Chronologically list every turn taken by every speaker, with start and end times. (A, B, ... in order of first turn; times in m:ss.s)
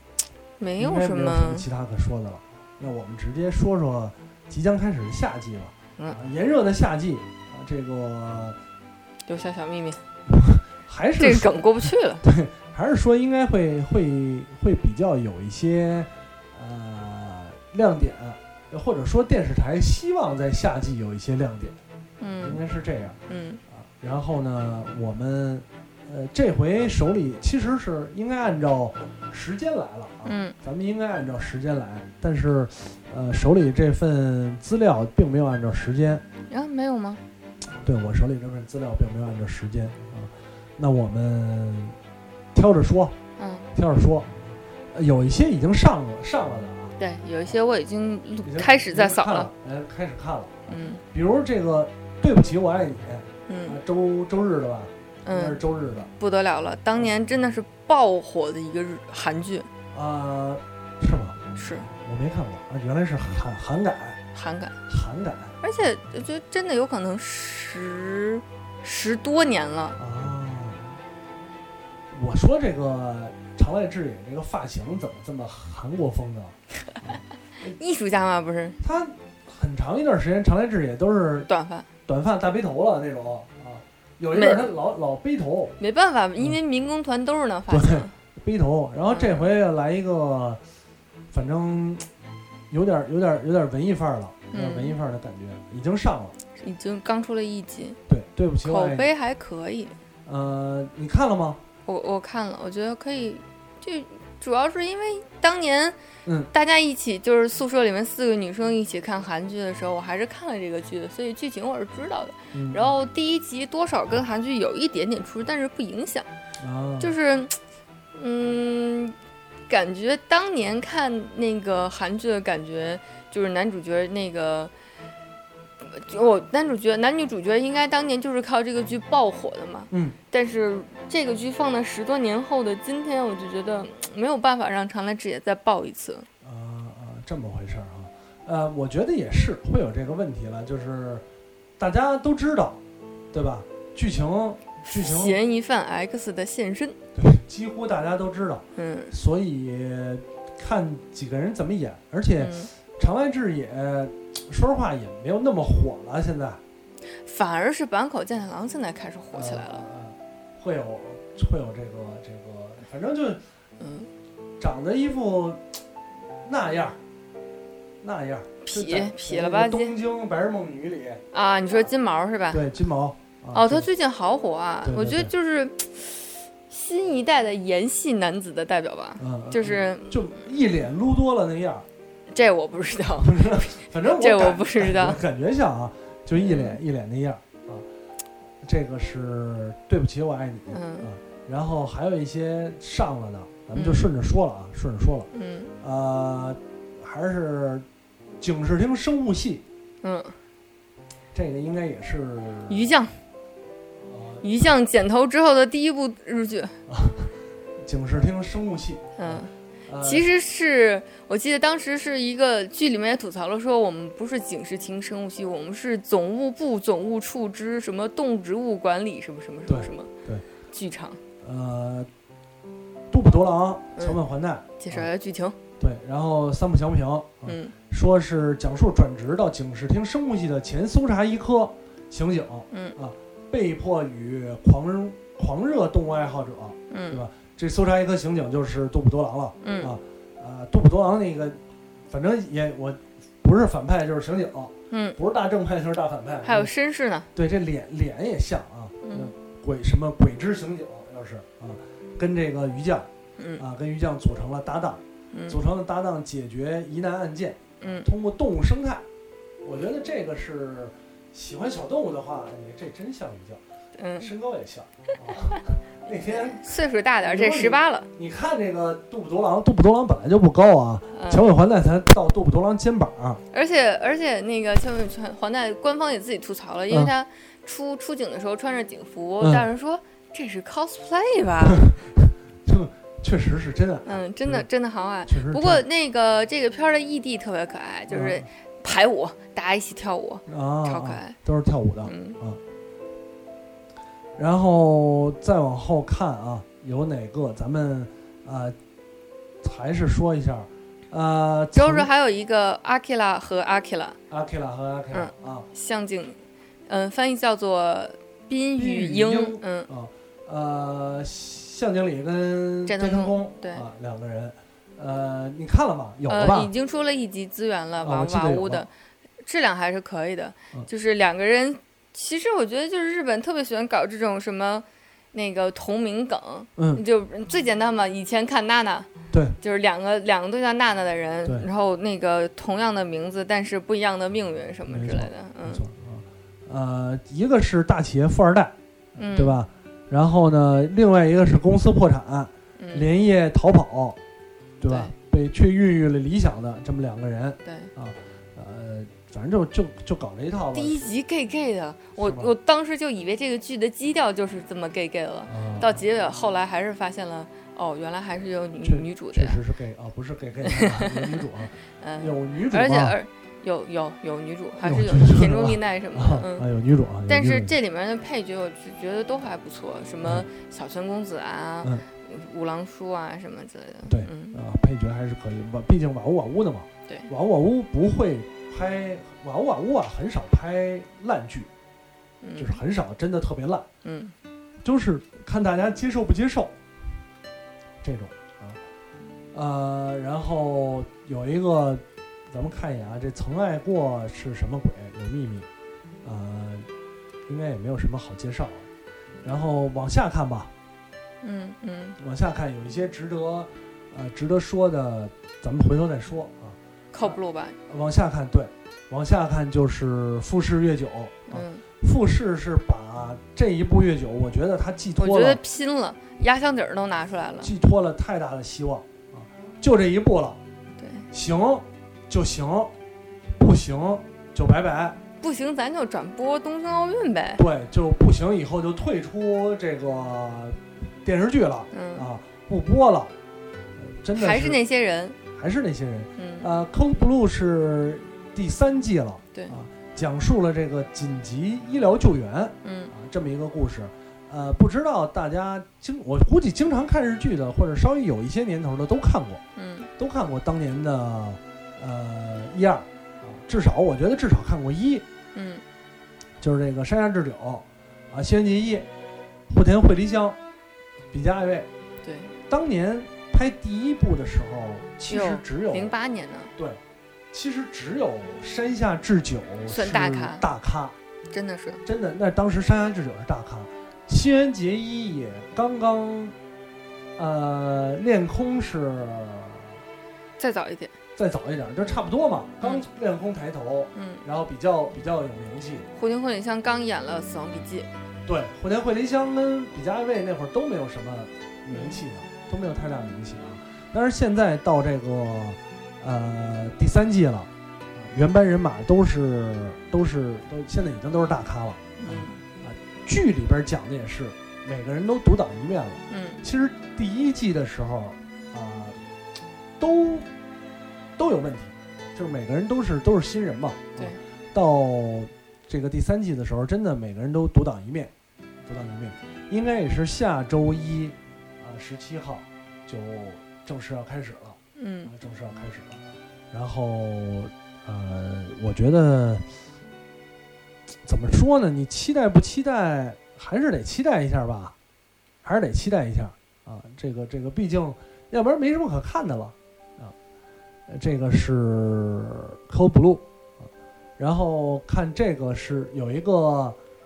0:00.6-0:01.6 A
0:00.8-0:08.6 B
0:09.3-0:10.0 A
0:10.3-0:11.6 B
0:11.2-0:12.2 A
0:12.2-0:21.8 B
0:22.2-0:22.6 A
0:22.4-0:23.2 B
0:23.3-0:23.6 A
0:23.7-0:36.2 B
0:30.2-0:30.5 A
0:36.5-0:37.2 A
0:37.8-0:42.0 B
0:42.5-0:43.1 B
0:43.4-0:43.7 A
0:43.7-0:44.4 B
0:44.9-0:47.0 B
0:47.0-0:49.5 A
0:48.4-0:56.1 B
0:50.7-0:51.0 A
0:53.5-0:53.8 A
0:55.2-0:55.6 A
0:56.2-0:59.7 A
0:59.9-1:04.2 B
1:01.6-1:01.9 A
1:04.3-1:04.8 A
1:04.9-1:05.5 B
1:05.6-1:10.0 A
1:10.0-1:11.0 B
1:12.1-1:17.8 B
1:17.8-1:18.8 A
1:18.8-1:21.5 B
1:21.5-1:21.9 A
1:22.0-1:25.7 B
1:24.3-1:24.7 A
1:25.8-1:28.1 A
1:27.7-1:30.6 B
1:29.1-1:29.5 A
1:31.3-1:32.0 B
1:32.7-1:36.4 B
1:34.5-1:35.0 A
1:36.6-1:38.0 A
1:38.1-1:39.1 B
1:38.6-1:39.9 A
1:40.2-1:41.6 B
1:41.9-1:46.0 A
1:46.2-1:46.5 B
1:46.5-1:56.3 A
1:52.5-1:52.9 B
1:56.6-1:57.1 B
1:57.0-1:57.6 A
1:58.1-1:59.2 A
1:59.7-2:04.7 A
2:05.8-2:16.3 A
2:09.9-2:10.2 B
2:16.4-2:21.2 B
2:21.8-2:22.8 B
2:23.3-2:25.4 B
2:24.8-2:27.0 A
2:27.1-2:36.6 B
2:28.8-2:29.1 A
2:32.4-2:32.7 A
2:37.2-2:39.9 A
2:39.3-2:43.4 B
2:43.8-2:44.1 A
2:44.6-2:45.6 B
2:46.4-2:47.0 B
2:48.0-2:51.2 B
2:48.6-2:50.0 A
2:51.3-2:52.6 A
2:52.5-2:53.9 B
2:53.5-3:00.4 A
2:54.8-2:55.3 B
2:59.2-3:01.8 B
3:02.3-3:05.2 A
3:03.2-3:07.8 B
3:06.4-3:06.8 A
3:08.6-3:15.3 B
3:10.7-3:11.1 A
3:13.7-3:14.1 A
3:15.3-3:15.7 A
3:15.8-3:17.8 B
3:18.4-3:19.6 B
3:20.0-3:20.4 A
3:21.3-3:22.9 B
3:22.7-3:23.1 A
3:24.0-3:24.5 B
3:24.4-3:26.8 A
3:26.9-3:30.2 B
3:29.2-3:40.1 A
3:39.6-3:40.4 B
3:40.7-3:41.2 A
3:41.4-3:42.1 B
3:43.1-3:45.1 B
3:44.8-3:45.6 A
3:45.8-4:06.7 B
3:47.4-3:47.7 A
3:52.7-3:53.0 A
3:56.9-3:57.2 A
3:59.6-4:00.0 A
4:04.9-4:05.2 A
4:06.4-4:07.3 A
4:07.3-4:19.0 B
4:09.0-4:09.3 A
4:13.4-4:13.6 A
4:15.3-4:15.6 A
4:17.8-4:18.1 A
4:19.6-4:23.6 B
4:24.0-4:24.3 A
4:24.2-4:26.6 B
4:26.2-4:28.1 A
4:27.2-4:33.4 B
4:31.1-4:31.4 A
4:33.5-4:41.9 A
4:39.4-4:39.6 B
4:41.6-4:44.6 B
4:44.0-4:51.3 A
4:45.2-4:45.8 B
4:48.1-4:48.4 B
4:50.5-4:52.6 B
4:52.0-4:52.4 A
4:54.4-4:58.8 B
4:59.6-5:02.1 B
5:01.7-5:04.2 A
5:04.3-5:05.7 B
5:05.1-5:09.9 A
5:08.8-5:16.7 B
5:12.9-5:13.8 A
5:16.3-5:18.9 A
5:18.0-5:18.9 B
5:19.4-5:29.1 A
5:26.8-5:27.0 B
5:29.6-5:35.8 A
5:34.9-5:44.2 B
5:39.2-5:39.6 A
5:42.8-5:43.1 A
5:44.8-5:51.0 B
5:47.6-5:47.9 A
5:50.7-5:59.6 A
5:52.2-5:52.5 B
5:55.5-5:56.0 B
5:58.8-6:03.2 B
6:00.6-6:01.4 A
6:02.0-6:06.7 A
6:04.8-6:07.7 B
6:07.3-6:14.6 A
6:10.2-6:10.5 B
6:14.0-6:21.7 B
6:22.4-6:22.8 A
6:22.6-6:23.9 B
6:24.0-6:24.3 A
6:24.8-6:26.7 B
6:28.0-6:28.8 B
6:29.5-6:35.7 B
6:36.2-6:36.9 B
6:37.5-6:38.9 B
6:39.4-6:40.7 B
6:41.4-6:42.2 A
6:42.2-6:55.6 B
6:47.1-6:47.8 A
6:51.5-6:51.8 A
6:55.2-6:57.7 A
6:57.6-7:00.6 B
7:01.0-7:01.3 A
7:01.3-7:02.9 B
7:03.6-7:05.2 B
7:05.4-7:07.6 A
7:07.6-7:13.3 B
7:11.9-7:12.2 A
7:14.0-7:14.8 B
7:14.3-7:15.4 A
7:15.5-7:29.6 B
7:16.4-7:16.7 A
7:22.8-7:23.1 A
7:29.8-7:30.1 A
7:30.2-7:35.2 B
7:35.5-7:35.8 A
7:36.6-7:39.1 B
7:39.7-7:40.6 B
7:41.3-7:41.9 B
7:42.2-7:42.5 A
7:42.7-7:46.1 B
7:45.3-7:46.7 A
7:47.5-7:51.1 B
7:49.9-7:50.6 A
7:51.5-7:52.0 A
7:52.0-7:56.5 B
7:57.4-7:59.9 B
8:00.6-8:01.2 A
8:01.4-8:06.1 B
8:04.1-8:04.4 A
8:06.1-8:08.1 A
8:08.4-8:29.2 B
8:11.9-8:12.2 A
8:22.2-8:22.6 A
8:26.3-8:26.6 A
8:30.0-8:30.5 B
8:31.4-8:38.3 B
8:38.8-8:49.6 B
8:45.0-8:45.3 A
8:51.2-8:54.9 B
8:55.6-9:00.3 B
9:01.1-9:07.0 B